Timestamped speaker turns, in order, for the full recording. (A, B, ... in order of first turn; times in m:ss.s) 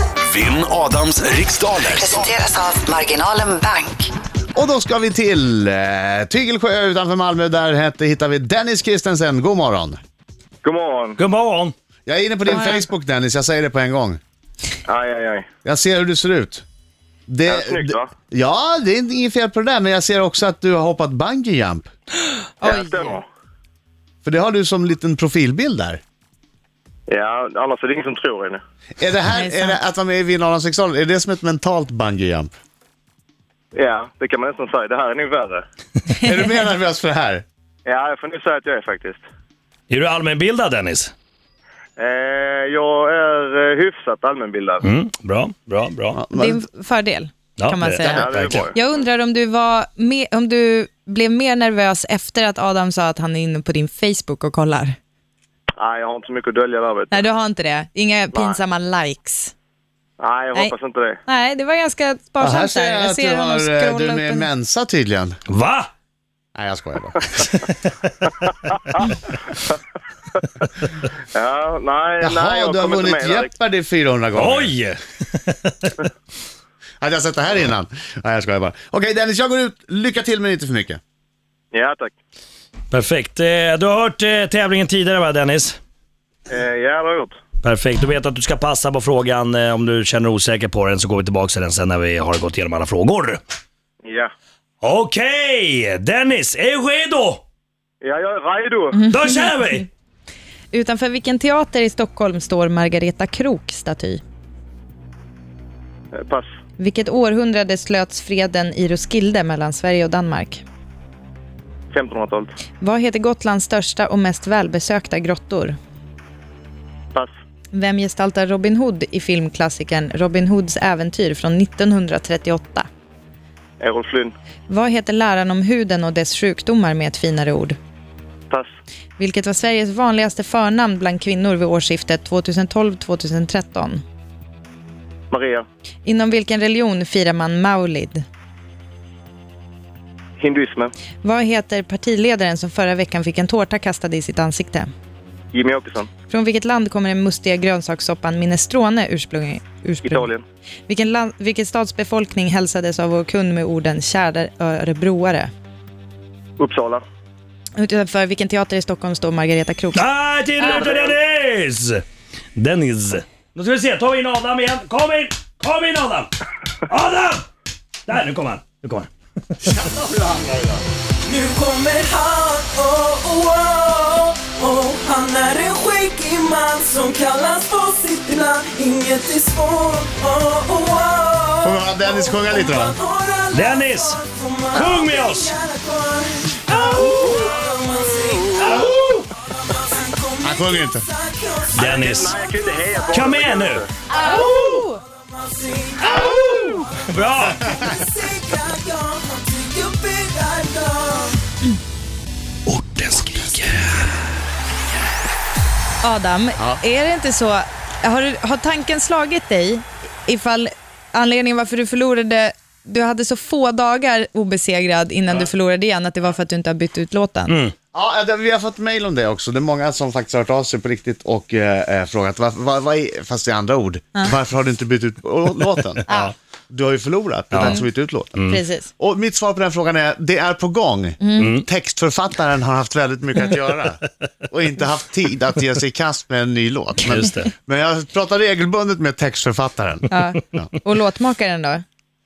0:00.2-0:02.3 A
0:01.9-0:04.1 B
0:04.5-0:10.0 C
0:10.6-0:11.2 D
0:11.2-0:11.7 E
0:12.0-0:14.2 C
0:12.5-0:12.9 F
0:14.9-0:15.4 D
0:15.6-0:16.6 C
0:17.3-0:21.9 C
0:17.5-0:18.1 D
0:22.6-0:23.2 F
0:22.6-0:23.2 D
0:24.2-0:26.0 C
0:27.1-0:28.6 D
0:29.0-0:32.5 C
0:29.3-0:29.8 F
0:33.7-0:35.6 D
0:36.2-0:37.4 C
0:37.8-0:39.2 D
0:39.9-0:41.1 E
0:42.0-0:44.8 D
0:44.8-0:46.2 E
0:46.1-0:46.6 C
0:46.3-0:55.0 F
0:47.6-0:48.7 E
0:48.0-0:48.4 C
0:48.0-0:48.8 D
0:55.8-0:57.2 D
0:57.1-0:59.5 F
0:58.3-0:58.6 D
1:00.2-1:01.2 D
1:01.3-1:04.5 F
1:02.4-1:05.4 C
1:05.5-1:05.9 E
1:06.5-1:07.5 C
1:07.5-1:09.0 E
1:11.3-1:13.5 D
1:12.2-1:14.7 C
1:14.4-1:16.1 E
1:17.0-1:21.0 C
1:21.7-1:22.1 D
1:22.9-1:25.8 E
1:26.5-1:27.3 D
1:27.6-1:33.4 E
1:34.0-1:34.3 D
1:34.8-1:37.4 E
1:38.0-1:39.0 D
1:38.9-1:39.8 F
1:39.0-1:39.9 E
1:40.7-1:44.2 F
1:46.1-1:46.4 D
1:46.8-1:50.6 F
1:51.9-1:52.5 D
1:52.8-1:55.8 F
1:57.7-2:02.9 F
2:03.8-2:04.3 D
2:04.7-2:07.8 F
2:09.2-2:14.0 F
2:15.3-2:15.6 D
2:16.0-2:18.2 F
2:20.4-2:20.9 D
2:21.2-2:24.9 F
2:25.5-2:26.1 D
2:26.3-2:30.3 F
2:30.0-2:30.4 D
2:30.9-2:35.5 F
2:36.6-2:37.0 D
2:37.8-2:40.0 F
2:39.9-2:42.0 E
2:40.6-2:41.1 D
2:42.6-2:46.3 E
2:46.9-2:47.4 E
2:48.1-2:49.1 E
2:49.6-2:50.8 C
2:51.2-3:13.3 G
3:01.6-3:03.0 C
3:03.5-3:04.2 E
3:04.7-3:05.6 E
3:07.2-3:07.6 D
3:08.7-3:09.3 E
3:10.4-3:11.0 C
3:11.8-3:13.9 D
3:11.8-3:12.3 E
3:13.1-3:13.8 E
3:14.1-3:21.4 G
3:14.1-3:15.0 F
3:16.1-3:17.6 E
3:22.7-3:24.2 E
3:26.0-3:37.5 F
3:37.5-3:37.7 E
3:37.9-3:46.1 C
3:46.7-3:48.5 C
3:47.5-3:47.8 E
3:48.4-3:48.9 F
3:49.0-4:00.7 C
3:51.2-3:51.5 F
3:51.4-3:51.6 E
3:57.0-3:57.5 E
4:00.1-4:01.8 F